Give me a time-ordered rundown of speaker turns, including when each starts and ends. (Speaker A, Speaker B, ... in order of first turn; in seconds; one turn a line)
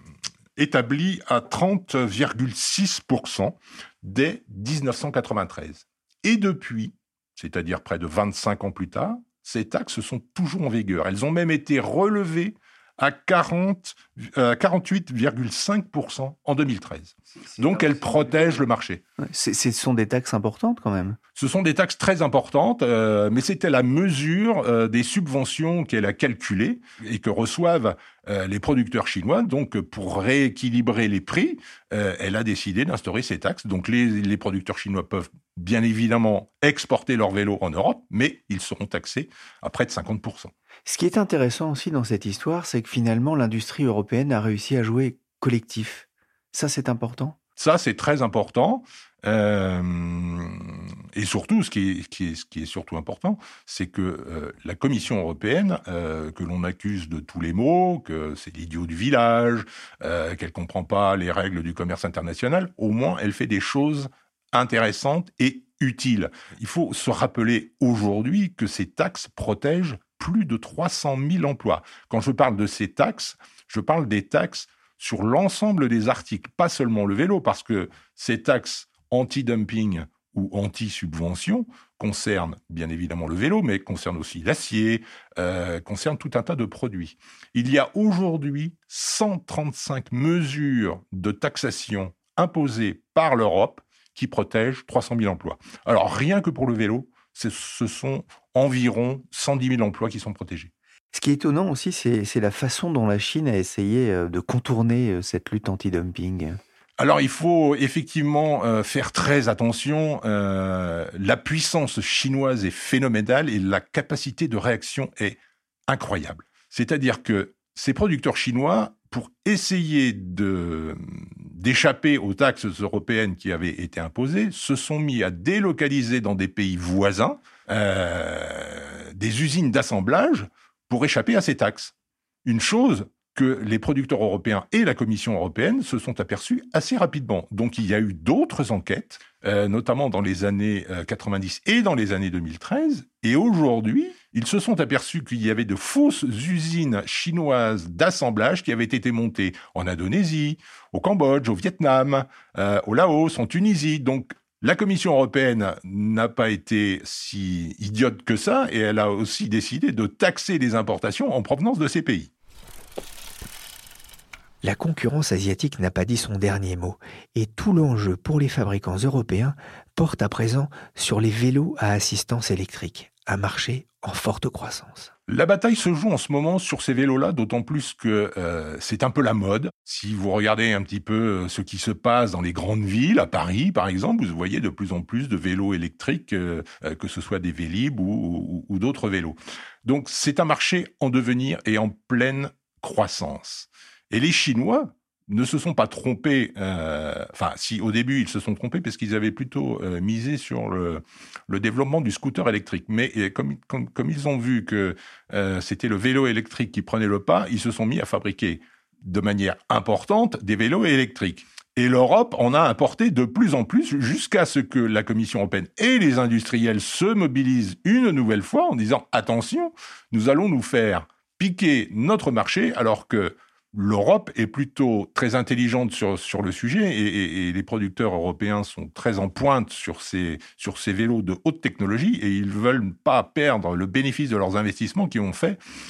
Speaker A: 0.6-19.0
Speaker B: 19.2-21.2
Speaker A: 21.4-40.5
Speaker B: 40.9-47.4
Speaker A: 47.6-100.7
Speaker B: 101.1-106.6
Speaker A: 107.0-131.9
Speaker A: 132.4-162.3
Speaker B: 164.6-175.1
Speaker A: 175.3-235.6